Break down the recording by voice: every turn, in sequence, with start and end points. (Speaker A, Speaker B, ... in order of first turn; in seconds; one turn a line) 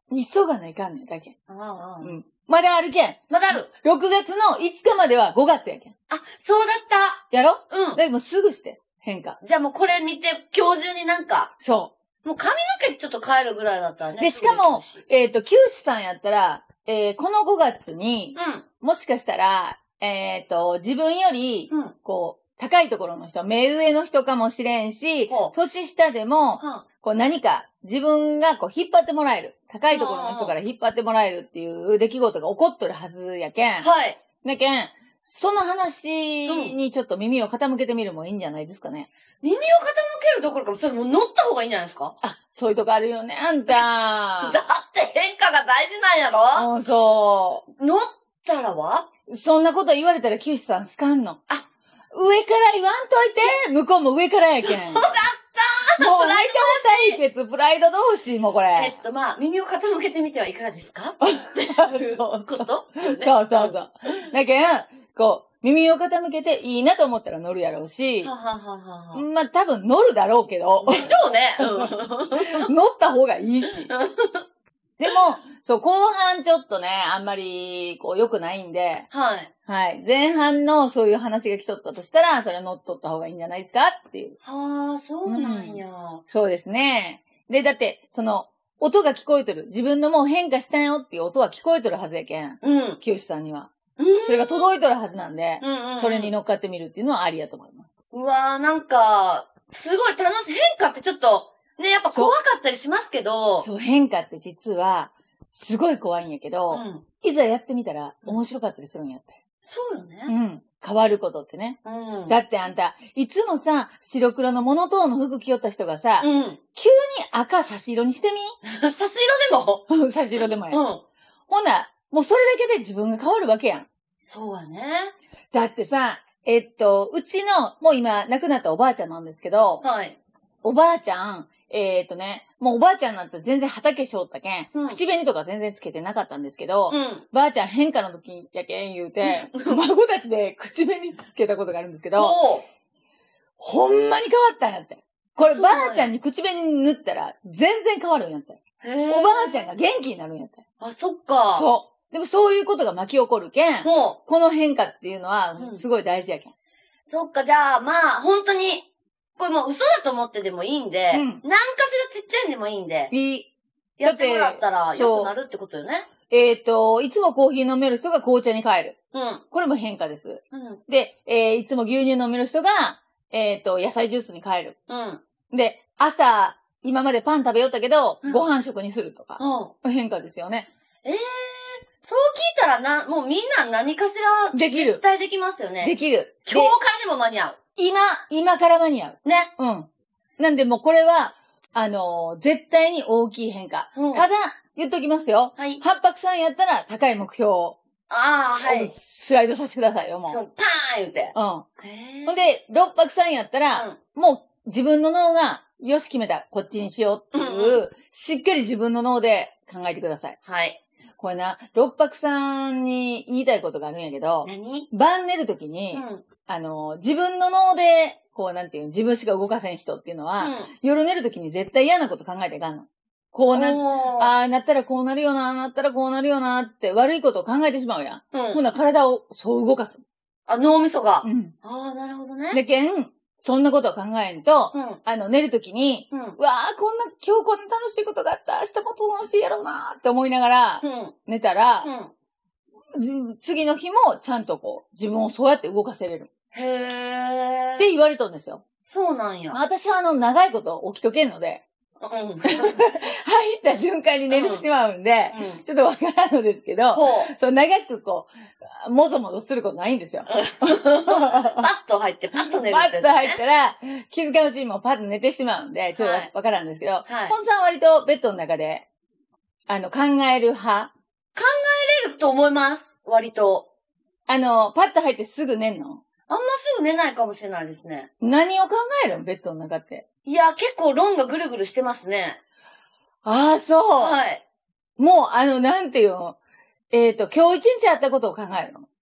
Speaker A: 0.1-1.4
Speaker B: 1.5-2.2
Speaker A: 2.0-5.9
Speaker B: 3.3-3.7
Speaker B: 6.1-8.0
Speaker A: 7.3-9.4
Speaker B: 9.4-11.5
Speaker A: 11.6-11.9
Speaker B: 12.2-15.0
Speaker A: 14.2-33.9
Speaker B: 18.4-18.6
Speaker B: 21.7-21.9
Speaker B: 25.3-25.5
Speaker B: 26.6-26.9
Speaker B: 29.9-30.6
Speaker B: 33.8-34.2
Speaker A: 34.4-39.1
Speaker B: 36.5-36.8
Speaker B: 39.4-42.1
Speaker A: 42.2-44.6
Speaker B: 44.4-46.7
Speaker A: 46.5-47.6
Speaker B: 47.8-49.1
Speaker A: 49.3-51.4
Speaker A: 52.1-55.1
Speaker B: 54.6-57.2
Speaker A: 56.0-59.0
Speaker B: 58.7-63.8
Speaker A: 61.2-68.3
Speaker B: 68.2-69.2
Speaker A: 69.1-73.9
Speaker B: 70.8-72.7
Speaker B: 73.9-74.4
Speaker A: 75.0-79.1
Speaker B: 79.1-79.5
Speaker A: 79.7-84.4
Speaker B: 84.4-86.2
Speaker A: 85.3-93.7
Speaker B: 92.6-93.0
Speaker B: 94.0-94.7
Speaker A: 94.2-97.9
Speaker B: 95.6-96.3
Speaker B: 98.1-103.7
Speaker A: 102.1-102.4
Speaker A: 103.6-109.4
Speaker B: 106.7-107.0
Speaker B: 109.6-110.3
Speaker A: 110.3-118.6
Speaker B: 111.8-112.4
Speaker B: 116.2-116.6
Speaker B: 118.6-119.9
Speaker A: 119.9-120.8
Speaker B: 120.7-121.0
Speaker A: 121.5-123.9
Speaker B: 124.2-125.1
Speaker A: 125.5-129.8
Speaker B: 129.8-130.2
Speaker A: 130.6-142.4
Speaker B: 134.7-135.0
Speaker B: 136.9-137.2
Speaker B: 139.2-139.8
Speaker B: 142.2-142.6
Speaker A: 143.6-150.6
Speaker B: 145.4-146.1
Speaker B: 148.8-149.7
Speaker B: 150.8-151.7
Speaker A: 151.6-156.5
Speaker B: 153.8-154.2
Speaker B: 155.6-155.8
Speaker B: 157.1-163.1
Speaker A: 161.1-161.4
Speaker A: 163.1-163.5
Speaker B: 164.0-166.1
Speaker A: 164.0-165.3
Speaker A: 166.3-169.0
Speaker B: 169.1-169.4
Speaker A: 169.5-174.8
Speaker B: 170.5-170.8
Speaker B: 174.9-175.2
Speaker A: 175.5-180.7
Speaker B: 178.2-178.5
Speaker B: 179.4-179.7
Speaker B: 181.0-187.6
Speaker A: 184.5-185.0
Speaker A: 185.8-186.7
Speaker A: 187.8-197.8
Speaker B: 189.2-189.5
Speaker B: 193.9-194.3
Speaker B: 195.6-195.8
Speaker B: 198.1-198.9
Speaker A: 198.6-200.4
Speaker B: 200.3-202.4
Speaker A: 201.3-201.7
Speaker A: 202.3-210.4
Speaker B: 207.3-207.9
Speaker B: 210.4-210.8
Speaker A: 211.2-230.0
Speaker B: 214.4-214.9
Speaker B: 215.9-216.2
Speaker B: 220.4-220.7
Speaker B: 223.5-224.3
Speaker B: 228.3-228.6
Speaker B: 230.5-232.6
Speaker A: 231.2-231.5
Speaker A: 232.5-241.9
Speaker B: 234.7-235.0
Speaker B: 236.1-236.4
Speaker B: 240.8-241.1
Speaker B: 241.8-242.1
Speaker A: 242.9-246.3
Speaker B: 246.5-247.9
Speaker A: 247.8-248.6
Speaker B: 248.8-249.6
Speaker A: 249.5-251.6
Speaker B: 252.0-252.9
Speaker A: 252.4-261.7
Speaker B: 254.3-254.6
Speaker B: 255.3-255.6
Speaker B: 256.9-257.3
Speaker B: 260.3-263.4
Speaker A: 262.4-268.9
Speaker B: 266.0-266.3
Speaker B: 267.1-267.4
Speaker A: 269.7-270.9
Speaker B: 271.4-273.7
Speaker A: 274.3-276.0
Speaker B: 276.3-278.1
Speaker A: 278.2-280.1
Speaker B: 280.2-282.4
Speaker A: 283.2-284.2
Speaker B: 284.0-284.4
Speaker A: 285.0-286.4
Speaker A: 286.9-288.9